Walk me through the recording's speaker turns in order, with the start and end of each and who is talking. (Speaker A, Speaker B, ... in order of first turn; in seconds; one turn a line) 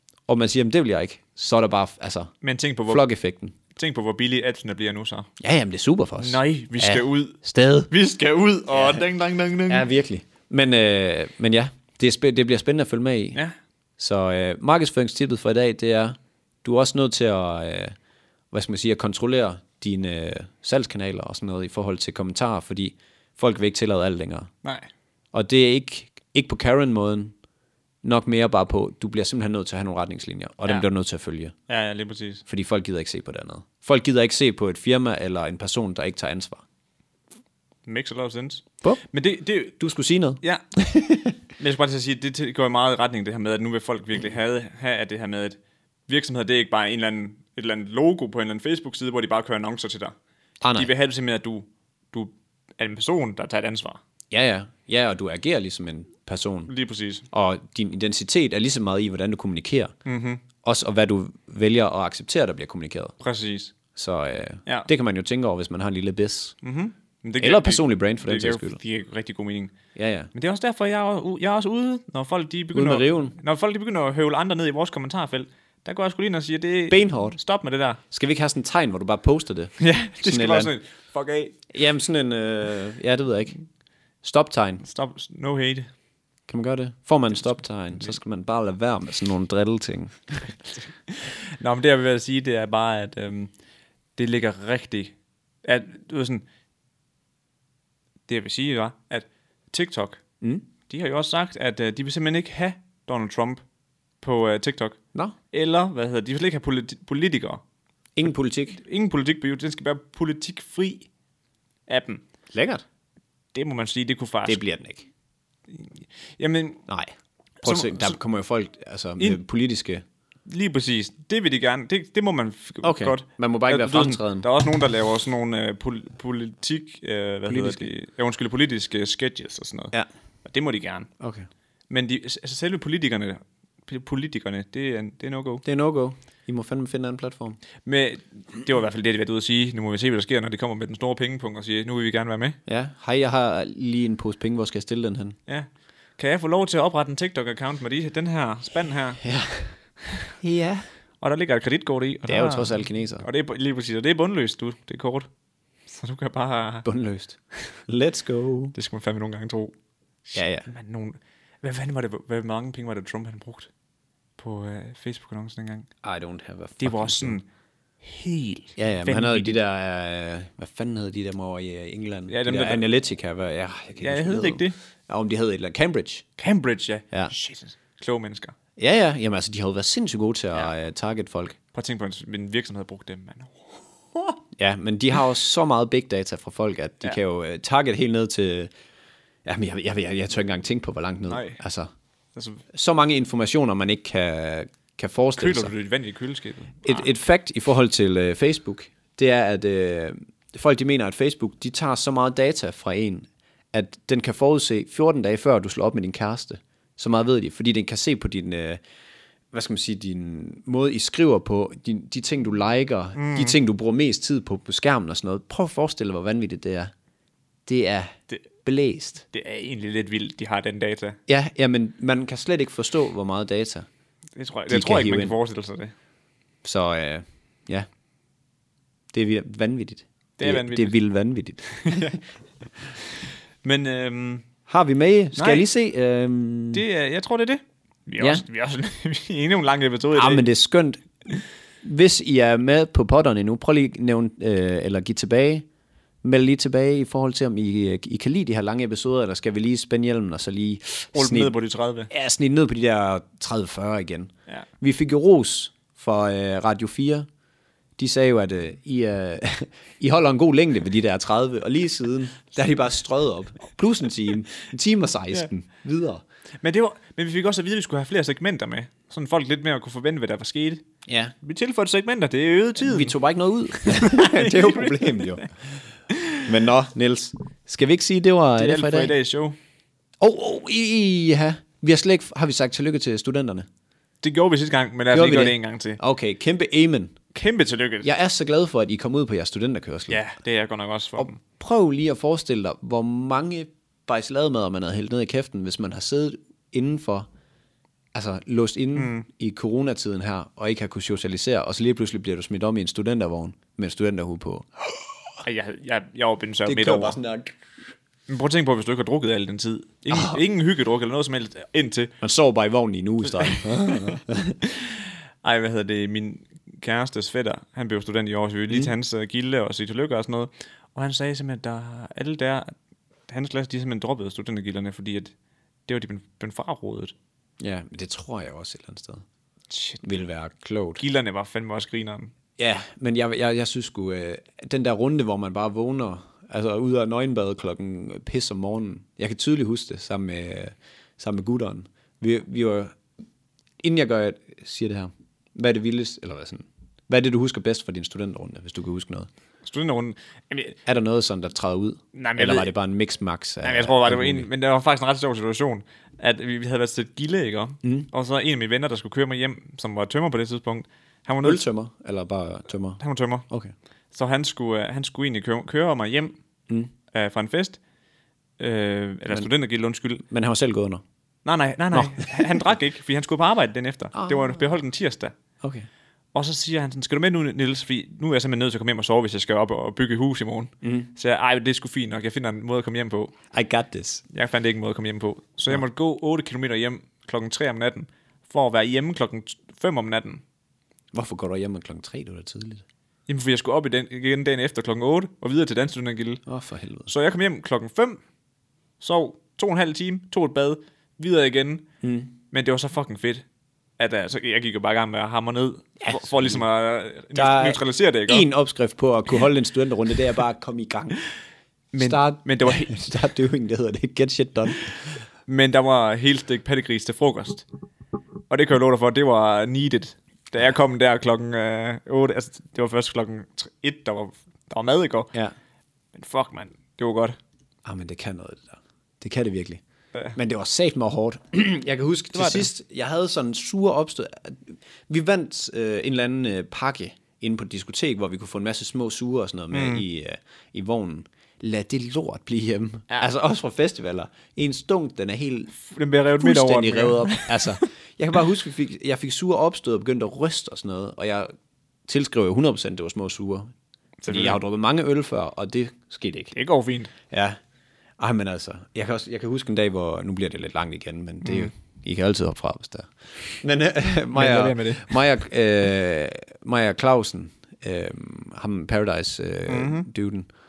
Speaker A: 0.3-2.3
Speaker B: 2.4-3.0
Speaker A: 2.9-3.5
Speaker B: 3.8-5.3
Speaker A: 5.4-7.9
Speaker B: 6.2-7.4
Speaker B: 7.9-9.9
Speaker A: 8.7-9.1
Speaker A: 9.7-13.4
Speaker A: 14.0-17.9
Speaker A: 18.5-24.5
Speaker B: 24.6-24.9
Speaker A: 25.3-27.3
Speaker A: 28.0-31.5
Speaker B: 31.7-32.4
Speaker A: 32.5-36.6
Speaker B: 37.9-39.8
Speaker A: 39.8-41.3
Speaker B: 41.6-50.1
Speaker A: 50.6-50.9
Speaker B: 50.8-54.0
Speaker A: 54.3-56.7
Speaker B: 56.7-57.3
Speaker A: 57.3-59.9
Speaker B: 60.1-60.4
Speaker A: 60.6-63.1
Speaker B: 63.2-63.7
Speaker A: 64.0-66.6
Speaker B: 66.6-69.7
Speaker A: 67.4-68.8
Speaker A: 70.0-70.3
Speaker B: 70.3-78.0
Speaker A: 72.7-73.3
Speaker A: 76.9-77.4
Speaker A: 78.1-79.7
Speaker B: 79.8-81.6
Speaker A: 80.2-80.7
Speaker A: 81.7-83.6
Speaker A: 84.2-84.8
Speaker B: 84.8-85.9
Speaker A: 86.5-90.5
Speaker B: 87.5-88.2
Speaker B: 90.8-93.5
Speaker B: 94.2-96.4
Speaker B: 98.3-100.2
Speaker B: 100.9-103.6
Speaker B: 104.2-105.0
Speaker B: 105.5-107.6
Speaker A: 108.2-108.8
Speaker B: 108.8-111.1
Speaker B: 111.9-112.2
Speaker A: 112.5-112.8
Speaker B: 113.5-114.6
Speaker A: 114.5-115.1
Speaker B: 115.7-116.8
Speaker B: 117.6-118.2
Speaker A: 117.6-120.0
Speaker B: 120.5-131.1
Speaker A: 122.8-124.5
Speaker A: 127.5-127.9
Speaker A: 131.2-131.5
Speaker B: 131.9-135.6
Speaker A: 135.7-137.6
Speaker B: 137.8-142.6
Speaker A: 142.7-145.4
Speaker B: 145.5-149.2
Speaker A: 149.2-149.7
Speaker A: 150.4-150.8
Speaker B: 151.2-155.3
Speaker A: 152.3-153.3
Speaker B: 155.9-156.9
Speaker A: 156.8-158.8
Speaker B: 158.8-159.7
Speaker B: 160.3-163.7
Speaker A: 160.3-160.7
Speaker B: 164.4-165.9
Speaker A: 166.0-167.4
Speaker B: 166.8-167.5
Speaker B: 168.0-169.6
Speaker A: 168.8-176.2
Speaker B: 172.3-172.8
Speaker B: 174.0-174.8
Speaker B: 176.4-178.6
Speaker A: 178.8-181.6
Speaker B: 181.7-184.4
Speaker A: 184.6-188.7
Speaker A: 189.4-191.9
Speaker B: 191.3-191.6
Speaker B: 192.3-192.6
Speaker A: 192.7-195.7
Speaker B: 195.4-197.1
Speaker A: 196.8-208.8
Speaker A: 209.5-216.9
Speaker B: 213.2-213.6
Speaker A: 217.7-219.2
Speaker B: 219.3-221.2
Speaker A: 221.3-223.9
Speaker B: 224.4-225.9
Speaker A: 224.7-225.4
Speaker A: 226.6-227.9
Speaker A: 229.1-232.2
Speaker B: 230.4-231.0
Speaker B: 231.8-232.2
Speaker B: 233.6-234.4
Speaker A: 234.7-236.8
Speaker B: 235.4-235.7
Speaker B: 236.7-240.4
Speaker A: 238.2-238.4
Speaker A: 240.1-241.0
Speaker A: 241.8-245.7
Speaker A: 246.2-251.5
Speaker B: 251.1-252.1
Speaker A: 252.1-257.3
Speaker A: 258.0-266.2
Speaker B: 266.6-270.8
Speaker A: 271.1-271.4
Speaker B: 271.4-273.1
Speaker A: 272.8-275.8
Speaker B: 273.9-275.4
Speaker B: 276.1-276.4
Speaker A: 276.4-279.1
Speaker B: 278.6-279.6
Speaker A: 280.2-283.7
Speaker B: 284.2-286.0
Speaker A: 285.1-287.2
Speaker B: 287.3-288.1
Speaker A: 288.0-290.2
Speaker B: 290.1-291.4
Speaker A: 291.2-297.3
Speaker A: 298.1-305.0
Speaker B: 299.0-299.3
Speaker B: 305.4-307.2
Speaker A: 306.6-307.6
Speaker B: 308.3-312.1
Speaker A: 310.1-310.4
Speaker A: 312.2-314.6
Speaker B: 313.4-314.1
Speaker B: 314.7-322.7
Speaker B: 323.3-325.3
Speaker B: 325.9-327.1
Speaker A: 327.6-329.2
Speaker B: 329.7-330.0
Speaker A: 330.0-331.0
Speaker B: 331.0-332.3
Speaker A: 332.6-343.0
Speaker A: 343.8-349.3
Speaker B: 349.6-350.8
Speaker A: 350.9-354.5
Speaker B: 352.1-352.7
Speaker B: 353.6-361.6
Speaker A: 357.8-358.1
Speaker A: 361.4-363.7
Speaker B: 363.0-363.5
Speaker B: 364.1-366.4
Speaker B: 367.1-367.8
Speaker B: 368.6-370.2
Speaker A: 370.3-371.0
Speaker B: 371.4-375.3
Speaker A: 371.9-372.6
Speaker A: 374.1-374.6
Speaker A: 375.6-375.9
Speaker B: 376.3-383.3
Speaker A: 380.8-381.1
Speaker A: 383.5-384.2
Speaker B: 384.3-390.4
Speaker A: 391.1-392.8
Speaker B: 393.3-396.4
Speaker A: 396.5-397.1
Speaker B: 397.1-398.2
Speaker B: 399.0-401.9
Speaker A: 402.0-402.3
Speaker B: 402.5-403.4
Speaker B: 404.0-408.5
Speaker A: 406.0-406.6
Speaker A: 407.4-411.2
Speaker B: 411.9-413.0
Speaker A: 412.0-415.2
Speaker B: 415.5-417.7
Speaker B: 418.5-425.3
Speaker B: 426.1-427.4
Speaker A: 427.9-429.8
Speaker A: 430.4-445.7
Speaker B: 432.4-432.7
Speaker B: 439.7-440.0
Speaker B: 445.7-447.8
Speaker A: 446.4-451.5
Speaker A: 452.1-453.7
Speaker B: 454.2-454.6
Speaker A: 454.3-456.5
Speaker B: 456.5-457.1
Speaker A: 457.3-457.6
Speaker A: 458.2-470.5
Speaker B: 461.4-461.7
Speaker B: 464.2-465.2
Speaker B: 469.7-470.1